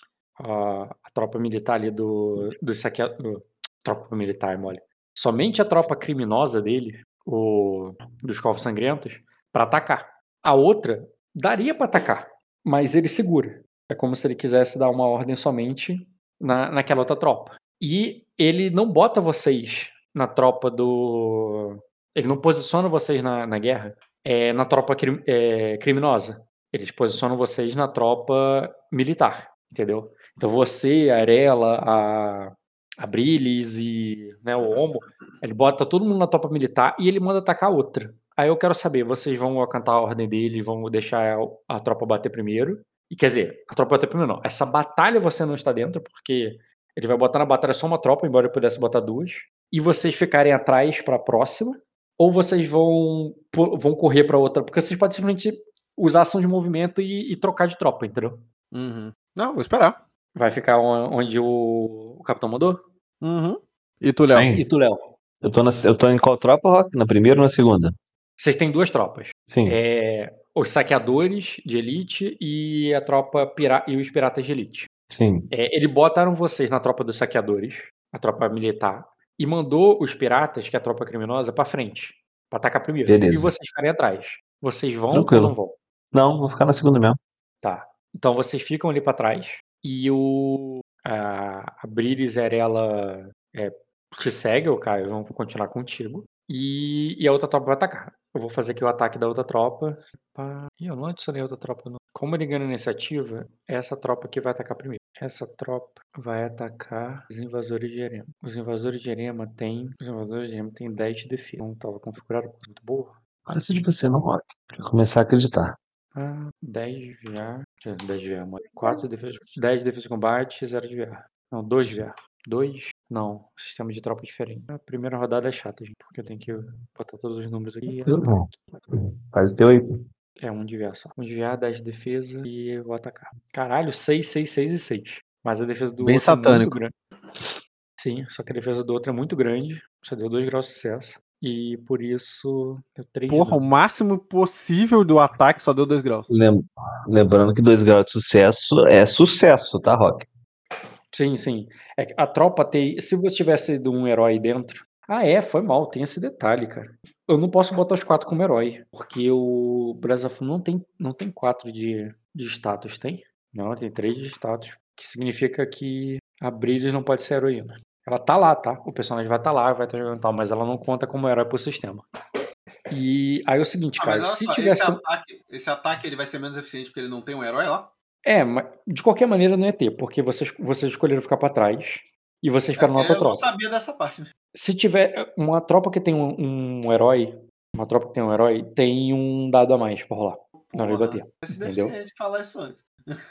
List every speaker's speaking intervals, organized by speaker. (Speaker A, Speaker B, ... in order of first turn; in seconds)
Speaker A: 0.4-58.5, 60.3-62.8, 64.5-65.1, 68.4-74.9, 75.5-85.8, 87.6-113.2, 116.1-128.5, 130.4-143.6, 151.1-172.1, 172.9-175.0, 178.2-183.5, 184.5-192.0
Speaker B: 58.7-60.0, 63.2-64.5, 135.8-136.8, 143.3-146.3, 174.0-177.9, 182.8-184.3, 190.6-193.2
Speaker C: 64.3-64.7, 65.4-67.9, 69.5-69.8, 75.1-75.5, 83.1-83.5, 85.1-85.5, 86.1-87.2, 113.5-115.8, 127.9-129.8, 146.3-150.3